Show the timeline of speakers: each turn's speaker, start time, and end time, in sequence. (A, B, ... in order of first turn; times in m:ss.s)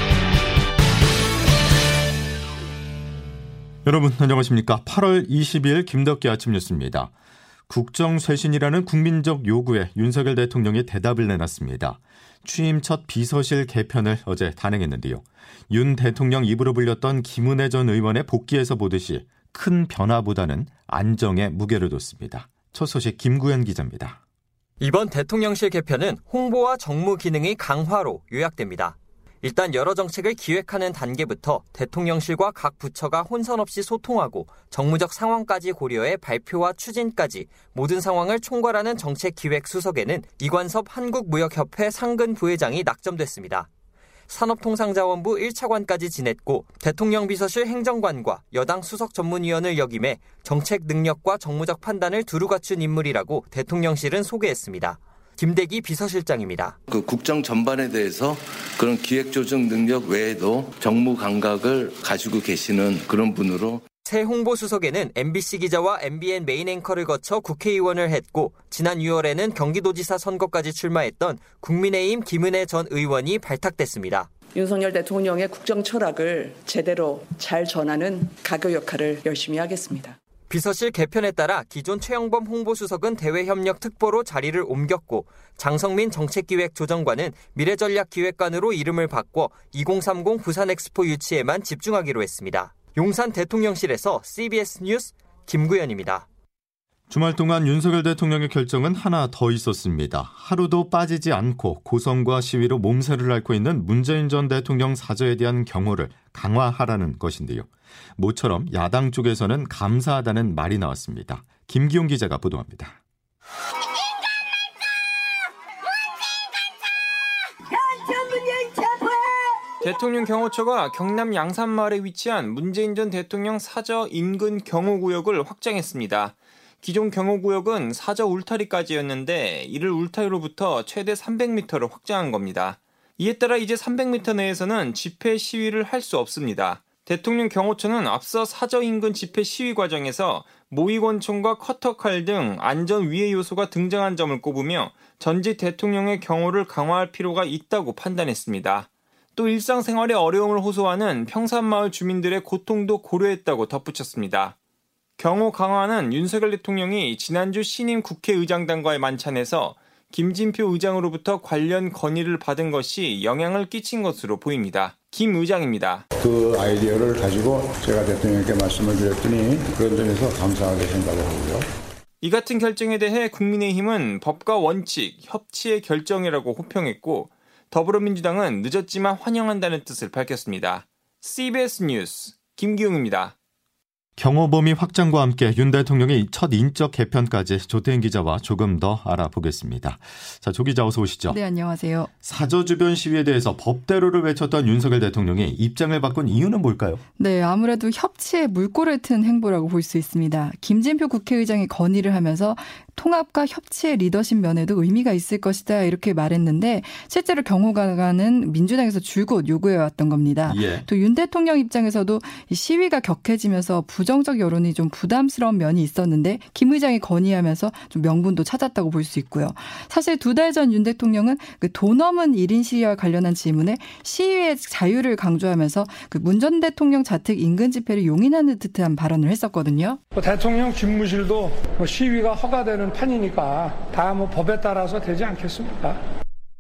0:03.9-0:07.1 A
0:07.7-0:24.2 A
0:24.8-0:43.7 B
0:44.3-0:56.8 B
0:56.9-1:03.8 C
1:04.0-1:14.3 B
1:14.5-1:20.2 D
1:20.5-1:36.3 B
1:37.1-1:53.0 A
1:59.8-2:34.6 E
2:35.2-2:46.0 E
2:46.2-2:51.7 F
2:52.2-3:03.3 E
3:04.2-3:11.4 A
3:11.3-3:12.1 G
3:12.2-3:17.0 A
3:17.2-3:50.0 G
3:30.5-3:30.8 A
3:50.2-3:56.0 H